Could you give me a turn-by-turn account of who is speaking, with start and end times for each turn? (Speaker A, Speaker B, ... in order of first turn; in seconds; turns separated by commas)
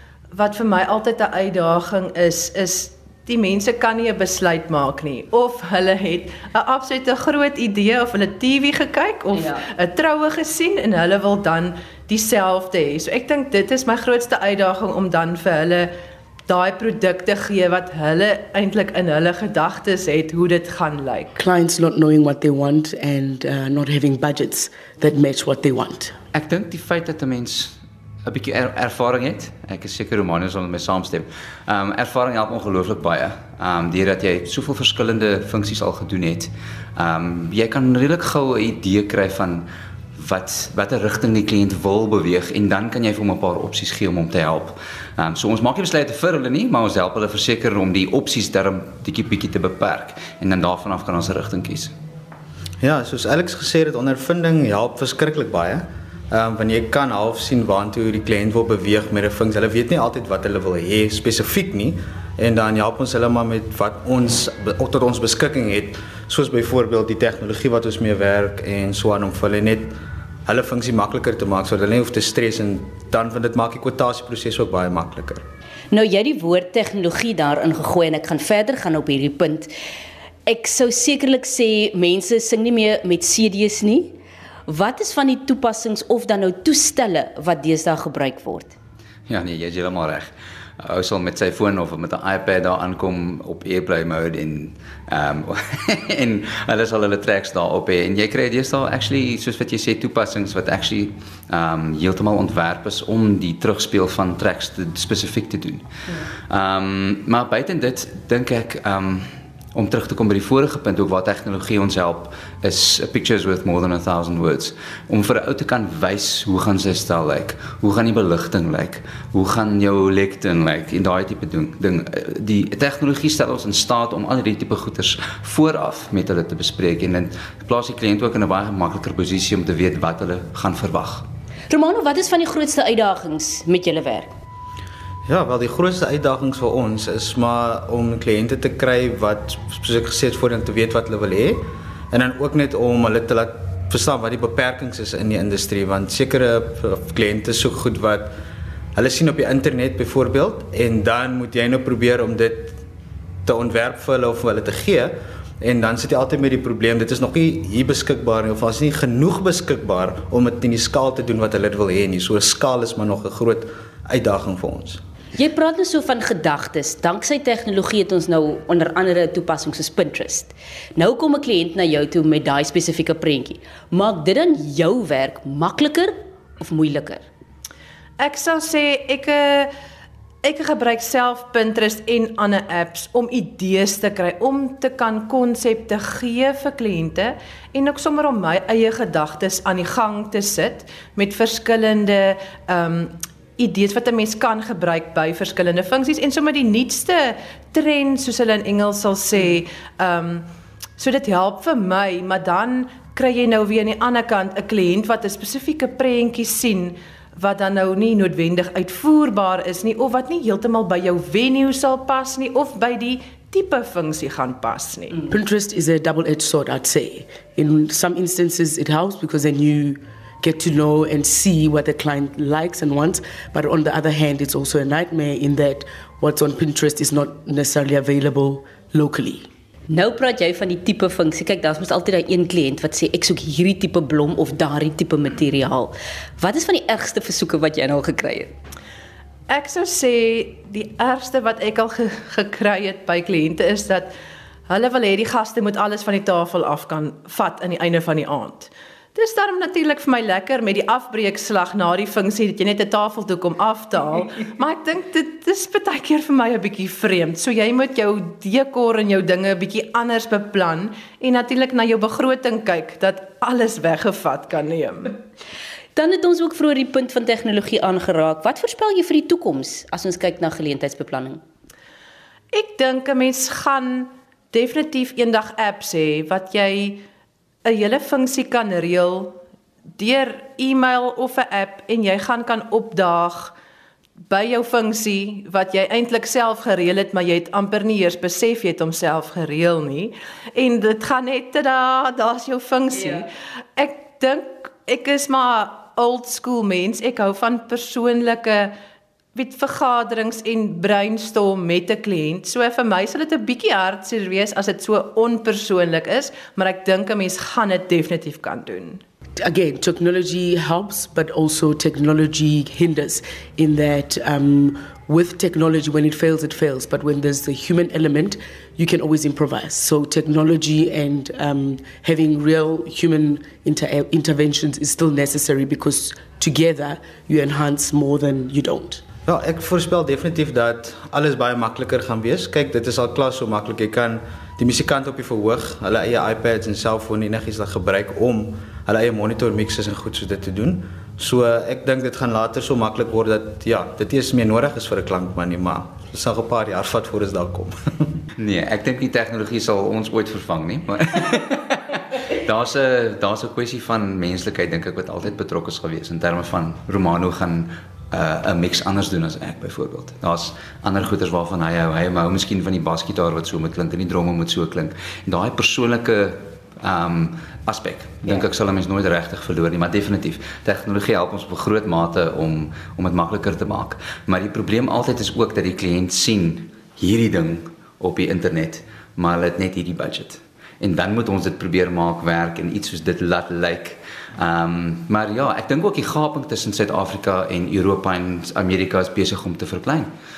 Speaker A: 0.3-15.9, Speaker A: 16.5-21.4, Speaker B: 21.4-26.1, Speaker C: 26.3-51.9, Speaker D: 52.8-70.0, Speaker D: 70.5-75.4, Speaker E: 75.9-79.7, Speaker E: 80.5-84.2, Speaker E: 84.7-88.7, Speaker C: 89.3-105.9, Speaker C: 106.5-131.3, Speaker E: 131.7-134.3, Speaker D: 135.3-148.3, Speaker D: 148.9-152.8, Speaker D: 153.5-165.0, Speaker E: 165.3-177.2, Speaker A: 178.2-179.7, Speaker A: 180.4-200.4, Speaker A: 201.0-215.2, Speaker B: 215.3-229.5, Speaker E: 229.9-238.5, Speaker A: 239.5-244.1, Speaker A: 244.7-265.1, Speaker E: 266.0-271.4, Speaker A: 272.5-277.0, Speaker A: 277.6-279.4, Speaker A: 280.0-283.5, Speaker A: 284.3-298.7, Speaker A: 299.4-309.0, Speaker B: 309.4-329.0, Speaker D: 329.3-348.1, Speaker C: 348.4-390.1